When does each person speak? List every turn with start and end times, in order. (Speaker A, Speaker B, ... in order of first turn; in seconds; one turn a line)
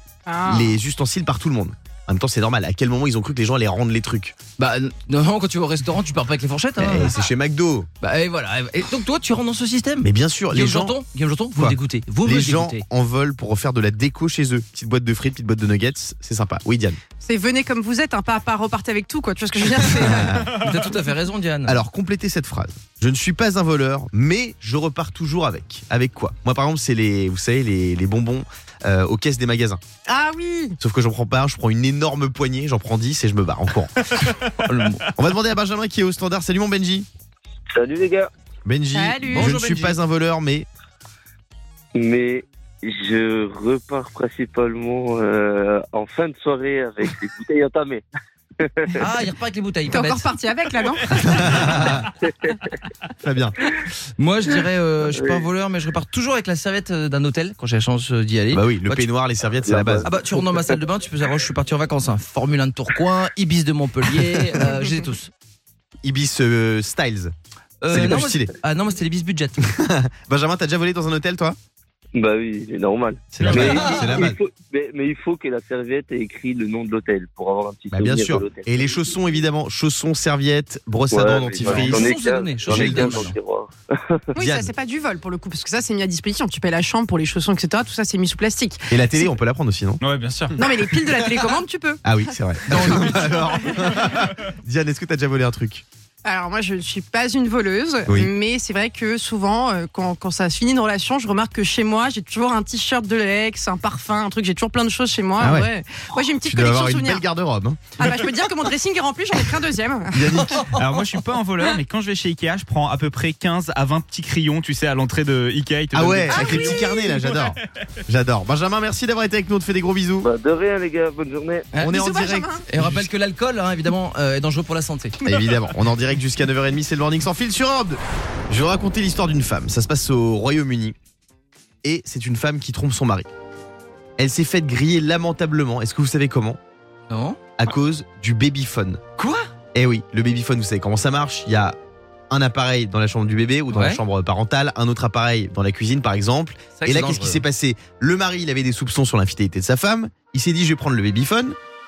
Speaker A: 0.2-0.8
Speaker B: 0.4-4.3
Speaker C: 4.6-7.2
Speaker B: 6.8-7.9
Speaker C: 8.0-12.8
Speaker B: 10.0-11.0
Speaker B: 11.5-17.0
Speaker A: 17.2-20.6
Speaker B: 20.1-20.5
Speaker C: 20.4-21.8
Speaker B: 21.6-29.8
Speaker A: 30.1-30.8
Speaker B: 30.8-33.9
Speaker C: 34.6-35.0
Speaker B: 35.1-37.1
Speaker D: 37.7-38.3
Speaker B: 38.6-40.7
Speaker A: 38.9-39.5
Speaker C: 39.2-40.0
Speaker D: 41.9-48.0
Speaker D: 48.6-49.0
Speaker C: 49.0-50.3
Speaker A: 49.9-51.7
Speaker B: 51.3-52.0
Speaker B: 53.2-53.6
Speaker C: 54.2-59.1
Speaker D: 55.0-55.5
Speaker B: 58.5-60.1
Speaker D: 59.6-60.7
Speaker C: 60.0-65.3
Speaker B: 66.0-67.3
Speaker C: 67.8-69.7
Speaker B: 67.9-68.5
Speaker B: 69.6-71.6
Speaker D: 72.1-79.1
Speaker B: 73.3-74.4
Speaker C: 73.5-74.2
Speaker B: 77.9-82.1
Speaker D: 81.1-84.2
Speaker C: 81.6-83.4
Speaker B: 82.7-83.2
Speaker A: 84.3-88.9
Speaker B: 84.4-84.7
Speaker B: 88.9-90.0
Speaker E: 90.0-90.6
Speaker A: 90.6-94.0
Speaker B: 92.0-95.8
Speaker C: 92.7-93.3
Speaker A: 96.2-107.2
Speaker B: 98.1-98.3
Speaker B: 105.4-105.7
Speaker B: 106.4-107.9
Speaker A: 108.0-110.5
Speaker B: 110.1-110.8
Speaker E: 110.7-117.5
Speaker B: 115.9-120.3
Speaker A: 116.3-116.9
Speaker D: 120.2-121.7
Speaker B: 121.8-123.1
Speaker A: 121.9-122.6
Speaker C: 122.7-125.2
Speaker B: 125.2-130.9
Speaker B: 131.8-133.3
Speaker B: 134.2-136.6
Speaker C: 137.1-137.4
Speaker B: 137.6-139.0
Speaker C: 139.2-139.5
Speaker B: 139.7-141.8
Speaker B: 142.3-151.6
Speaker C: 143.7-144.0
Speaker C: 146.8-147.4